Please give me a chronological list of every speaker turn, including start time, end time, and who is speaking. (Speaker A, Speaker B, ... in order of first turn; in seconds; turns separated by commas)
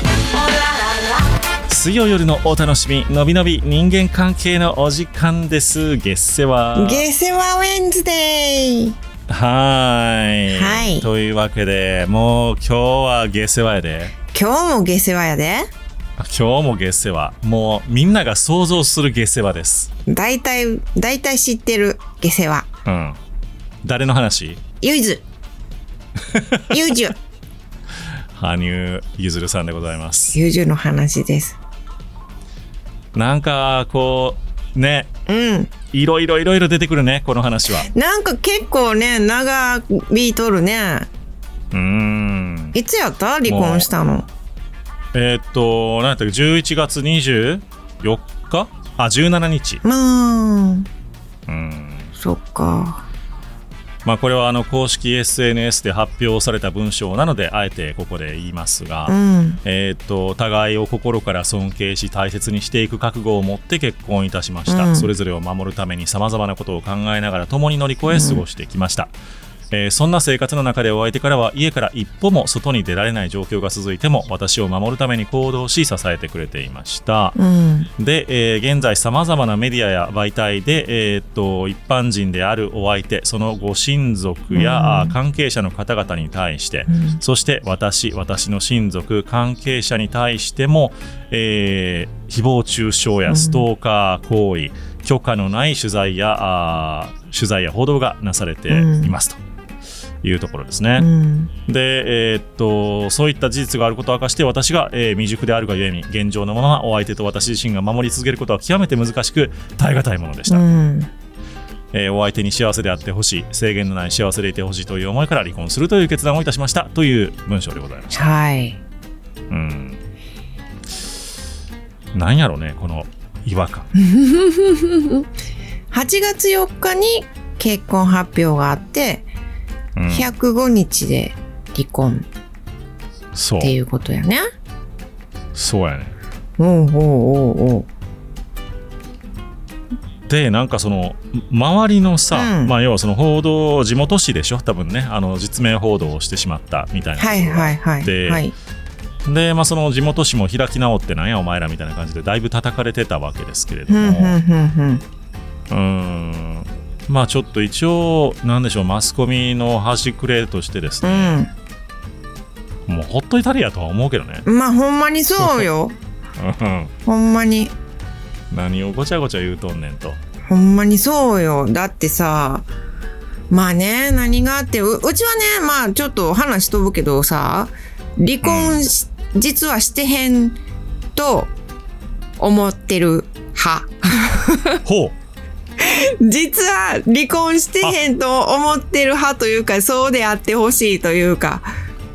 Speaker A: 0.3-1.3, Speaker B: 1.7-7.0, Speaker A: 6.8-8.9, Speaker B: 9.3-14.1, Speaker A: 10.5-11.1, Speaker A: 14.3-15.7, Speaker B: 16.2-19.9, Speaker A: 20.1-22.7, Speaker B: 22.9-23.2, Speaker B: 23.8-24.6, Speaker A: 24.8-25.2, Speaker B: 26.3-26.6, Speaker A: 26.7-27.1, Speaker B: 28.3-30.4, Speaker A: 30.3-31.6, Speaker B: 33.1-35.1, Speaker A: 35.3-35.7, Speaker B: 35.9-37.9, Speaker A: 37.8-41.1, Speaker B: 41.7-42.8, Speaker A: 42.7-44.2, Speaker B: 43.5-43.9, Speaker B: 45.1-49.8, Speaker A: 49.8-50.9, Speaker B: 51.5-52.1, Speaker A: 52.2-53.0, Speaker B: 54.0-69.1, Speaker A: 59.1-59.6, Speaker A: 64.7-65.1, Speaker A: 68.1-68.4, Speaker B: 69.7-77.4, Speaker A: 77.3-77.9, Speaker B: 78.0-99.4, Speaker A: 84.5-85.2, Speaker A: 86.9-87.2, Speaker A: 93.3-93.6, Speaker A: 98.7-99.1, Speaker B: 100.2-101.1, Speaker A: 101.0-101.5, Speaker B: 101.7-110.6, Speaker A: 110.5-111.1, Speaker B: 111.9-118.3, Speaker A: 118.1-118.8, Speaker B: 119.5-120.0, Speaker B: 122.1-123.9, Speaker A: 123.9-125.3, Speaker A: 125.9-129.3, Speaker B: 129.9-130.3, Speaker A: 130.1-132.2, Speaker B: 133.3-133.7, Speaker A: 133.6-134.4, Speaker B: 135.5-136.1, Speaker A: 136.6-137.9, Speaker B: 140.3-148.4, Speaker A: 142.3-142.7, Speaker A: 147.2-148.5, Speaker B: 149.2-154.4, Speaker A: 153.9-155.0, Speaker B: 155.7-161.4, Speaker A: 161.0-161.5, Speaker B: 162.9-164.4, Speaker A: 164.4-165.9, Speaker B: 165.4-165.7, Speaker B: 166.4-166.9, Speaker A: 167.1-167.7, Speaker B: 168.5-170.2, Speaker A: 170.5-172.7, Speaker A: 173.5-180.6, Speaker B: 178.4-178.8, Speaker A: 181.2-181.5, Speaker A: 182.4-184.8, Speaker B: 184.8-185.1, Speaker A: 185.8-191.7